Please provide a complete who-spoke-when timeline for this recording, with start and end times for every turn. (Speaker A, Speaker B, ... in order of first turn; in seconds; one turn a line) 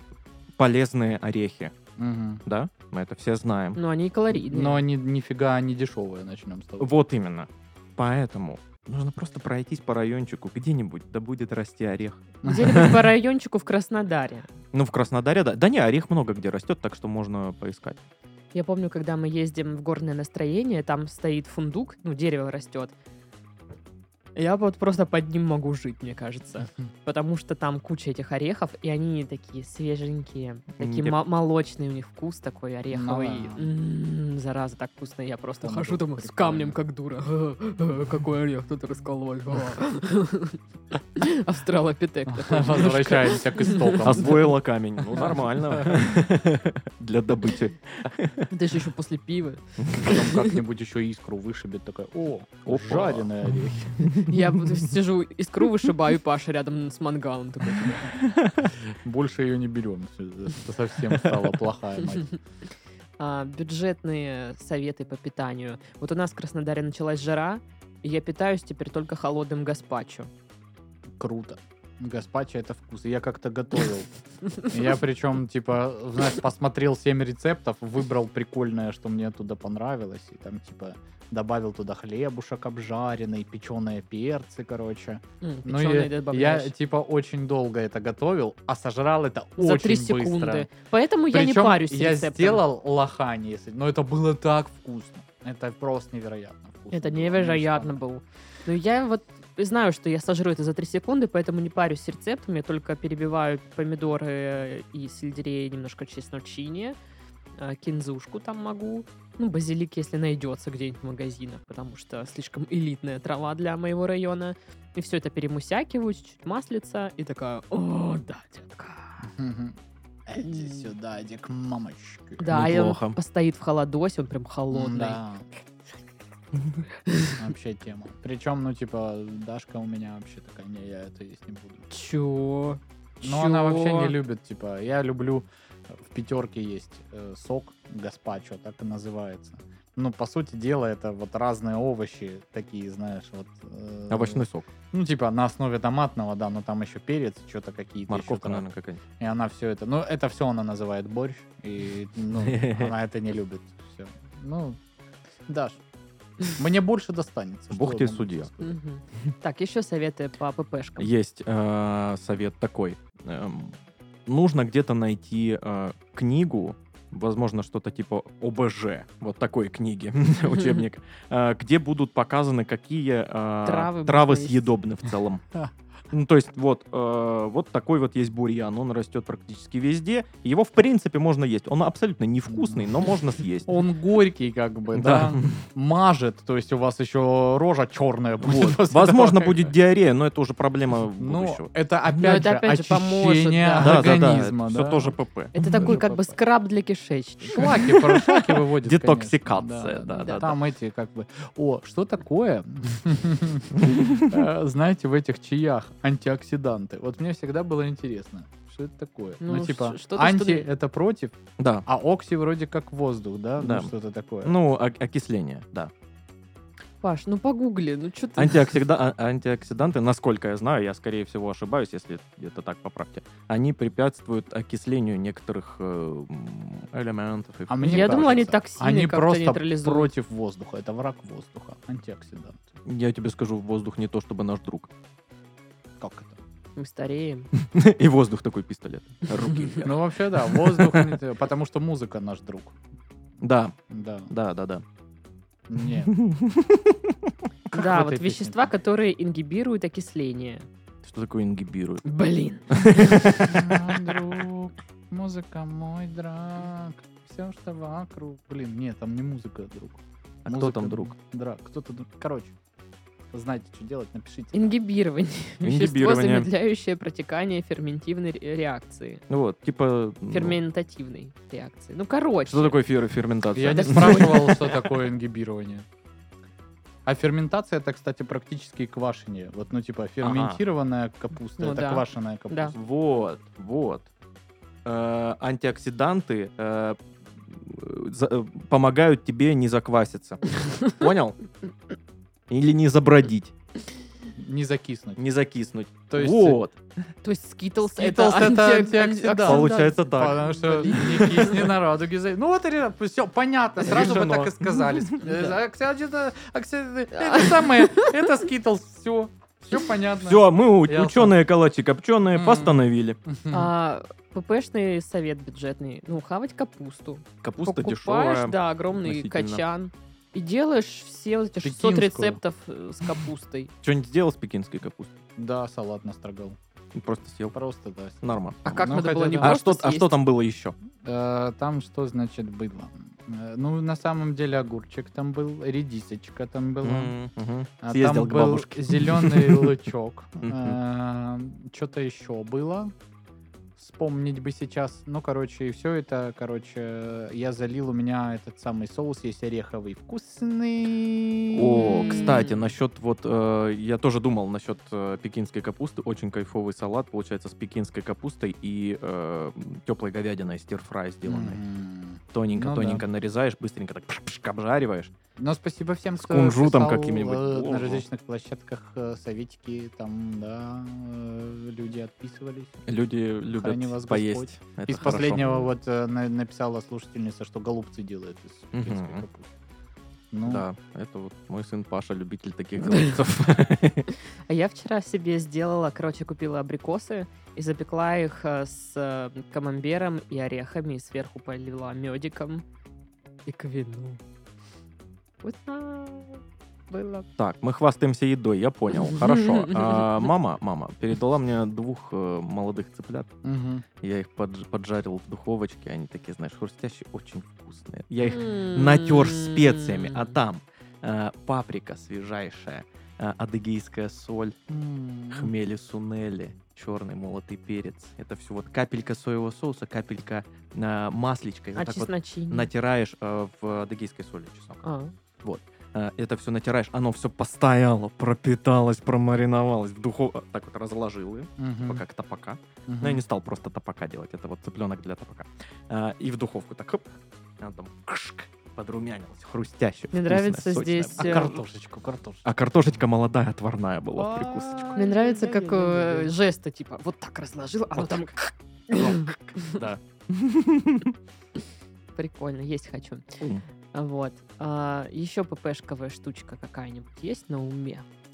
Speaker A: 0.6-1.7
Speaker B: 2.0-2.4
Speaker A: 2.5-3.8
Speaker C: 3.8-4.8
Speaker B: 4.3-6.9
Speaker A: 6.8-13.0
Speaker C: 12.4-14.5
Speaker B: 12.4-12.9
Speaker A: 14.7-18.0
Speaker C: 18.5-22.9
Speaker C: 24.4-40.6
Speaker A: 30.8-31.2
Speaker B: 32.9-33.7
Speaker B: 35.6-36.8
Speaker C: 41.2-44.3
Speaker B: 42.3-44.5
Speaker A: 44.0-48.5
Speaker B: 45.2-46.0
Speaker C: 48.5-50.6
Speaker A: 49.8-50.1
Speaker B: 50.0-54.0
Speaker A: 52.7-54.4
Speaker C: 54.2-58.1
Speaker A: 58.2-58.7
Speaker B: 58.8-62.3
Speaker C: 63.2-70.3
Speaker B: 71.2-74.1
Speaker B: 74.6-90.7
Speaker C: 85.4-86.7
Speaker C: 89.6-92.6
Speaker B: 91.3-98.0
Speaker C: 96.9-107.0
Speaker C: 107.6-119.2
Speaker B: 119.2-122.4
Speaker C: 120.4-120.9
Speaker C: 122.4-125.2
Speaker A: 122.5-123.2
Speaker B: 124.7-125.5
Speaker C: 127.0-127.4
Speaker B: 127.4-131.8
Speaker C: 131.9-134.2
Speaker B: 133.2-148.7
Speaker A: 144.1-144.7
Speaker A: 148.1-149.0
Speaker B: 149.2-154.8
Speaker A: 152.4-152.9
Speaker B: 155.5-155.8
Speaker B: 156.4-158.8
Speaker A: 157.7-158.5
Speaker C: 158.6-161.1
Speaker A: 161.0-175.4
Speaker C: 173.7-174.7
Speaker A: 176.1-183.7
Speaker B: 182.5-183.1
Speaker B: 183.7-189.7
Speaker A: 184.9-185.7
Speaker A: 188.4-191.7
Speaker B: 191.2-196.4
Speaker C: 192.2-194.1
Speaker A: 193.8-196.0
Speaker C: 195.6-197.9
Speaker B: 197.4-211.3
Speaker A: 197.6-200.6
Speaker C: 200.2-200.5
Speaker A: 203.8-204.3
Speaker C: 209.4-210.7
Speaker A: 211.6-211.9
Speaker B: 211.9-214.6
Speaker A: 213.6-213.9
Speaker A: 214.4-215.9
Speaker C: 217.0-218.8
Speaker A: 218.4-228.5
Speaker B: 227.7-232.6
Speaker C: 227.8-230.1
Speaker A: 232.9-234.9
Speaker B: 236.0-236.4
Speaker C: 236.8-237.5
Speaker A: 237.6-241.2
Speaker B: 239.8-242.8
Speaker A: 243.4-243.8
Speaker B: 243.9-244.3
Speaker A: 244.3-244.8
Speaker B: 245.7-246.1
Speaker A: 246.0-247.1
Speaker B: 247.7-248.7
Speaker C: 247.7-250.7
Speaker A: 251.0-252.1
Speaker C: 252.1-253.4
Speaker A: 252.7-254.3
Speaker B: 253.4-262.5
Speaker A: 260.4-261.1
Speaker B: 263.3-264.7
Speaker C: 264.5-269.2
Speaker A: 265.6-266.5
Speaker A: 269.3-270.6
Speaker C: 270.3-272.8
Speaker A: 272.5-274.8
Speaker B: 273.5-275.9
Speaker C: 273.7-274.7
Speaker B: 277.1-282.7
Speaker A: 280.2-280.6
Speaker C: 281.6-282.7
Speaker A: 282.7-284.1
Speaker A: 284.9-287.0
Speaker A: 287.5-291.4
Speaker A: 292.5-293.5
Speaker B: 294.4-295.2
Speaker A: 295.2-296.8
Speaker B: 296.1-296.6
Speaker C: 297.2-301.6
Speaker B: 297.8-311.4
Speaker A: 299.4-301.6
Speaker A: 303.9-305.2
Speaker C: 305.2-305.5
Speaker C: 307.1-308.1
Speaker A: 310.2-313.2
Speaker B: 312.3-313.7
Speaker C: 313.5-323.7
Speaker A: 317.4-319.6
Speaker B: 321.6-322.4
Speaker A: 323.8-325.1
Speaker B: 325.4-326.6
Speaker A: 326.9-327.6
Speaker B: 327.5-329.6
Speaker A: 328.2-330.8
Speaker C: 328.6-330.1
Speaker B: 331.0-337.1
Speaker A: 336.8-339.8
Speaker B: 337.8-342.9
Speaker A: 340.4-340.8
Speaker B: 343.8-352.4
Speaker A: 351.5-361.6
Speaker C: 351.8-352.6
Speaker B: 361.3-363.0
Speaker A: 362.3-365.1
Speaker B: 365.4-372.8
Speaker A: 366.2-368.0
Speaker A: 372.9-375.6
Speaker B: 373.5-379.5
Speaker A: 378.7-379.2
Speaker B: 380.3-380.6
Speaker A: 380.4-384.1
Speaker C: 384.5-392.6
Speaker C: 393.5-394.2
Speaker C: 395.4-397.3
Speaker A: 397.4-403.3
Speaker C: 399.0-400.3
Speaker B: 403.4-403.9
Speaker A: 404.0-414.6
Speaker C: 408.2-410.4
Speaker B: 414.7-415.5
Speaker A: 415.3-424.8
Speaker C: 421.8-422.7
Speaker C: 424.8-425.1
Speaker A: 425.4-441.6
Speaker B: 431.6-432.0
Speaker B: 432.9-433.2
Speaker C: 440.1-441.6
Speaker B: 441.2-442.4
Speaker A: 442.4-444.9
Speaker B: 444.2-446.3
Speaker C: 444.9-449.8
Speaker A: 449.0-451.1
Speaker C: 452.2-453.4
Speaker C: 453.9-458.1